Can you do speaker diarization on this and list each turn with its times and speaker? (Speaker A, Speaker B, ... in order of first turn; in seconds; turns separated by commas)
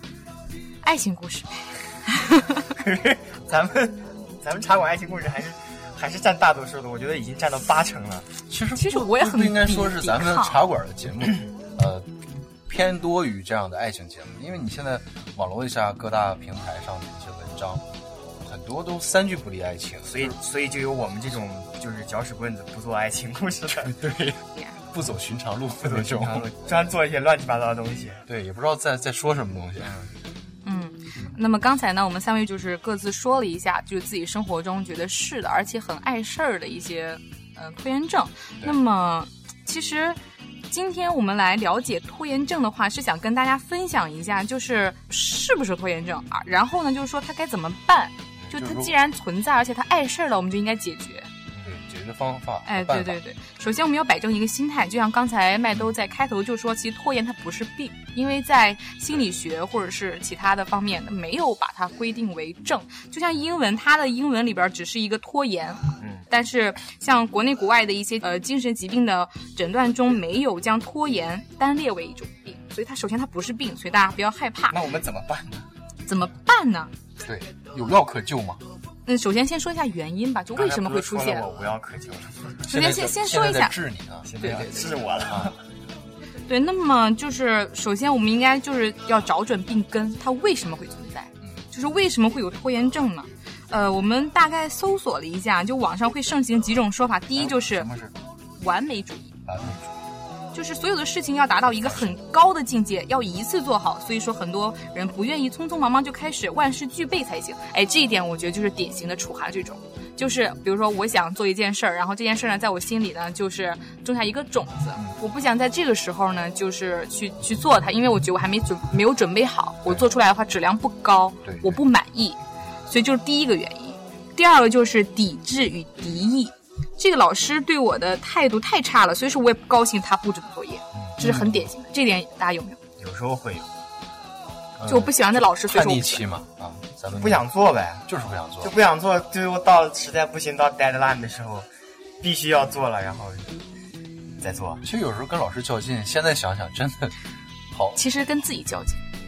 Speaker A: 0.8-2.6, Speaker B: 2.8-8.3, Speaker C: 8.5-12.1, Speaker A: 8.8-10.6, Speaker C: 12.7-17.9, Speaker C: 18.4-20.4, Speaker B: 20.1-24.0, Speaker C: 23.7-26.5, Speaker B: 25.8-28.2, Speaker C: 28.3-30.0, Speaker B: 29.8-30.1, Speaker A: 30.6-51.3, Speaker C: 48.5-48.9, Speaker B: 51.5-51.8, Speaker C: 51.6-53.2, Speaker A: 52.7-74.8, Speaker B: 66.0-66.3, Speaker B: 74.7-75.7, Speaker A: 76.1-76.9, Speaker C: 77.2-78.6, Speaker A: 79.1-81.5, Speaker B: 80.5-82.6, Speaker C: 82.6-85.5, Speaker A: 82.7-83.8, Speaker B: 84.2-85.6, Speaker A: 86.5-97.9, Speaker C: 91.4-91.7, Speaker C: 97.4-98.1, Speaker A: 98.6-99.4, Speaker C: 99.5-100.0, Speaker A: 100.5-132.8, Speaker C: 121.4-121.8, Speaker C: 131.2-131.7, Speaker B: 133.0-133.7, Speaker C: 134.8-137.5, Speaker A: 134.9-136.2, Speaker B: 137.2-138.1, Speaker C: 138.1-138.8, Speaker B: 138.6-141.7, Speaker B: 142.2-143.6, Speaker B: 144.4-144.8, Speaker C: 144.8-147.2, Speaker C: 147.7-148.0, Speaker A: 147.9-149.0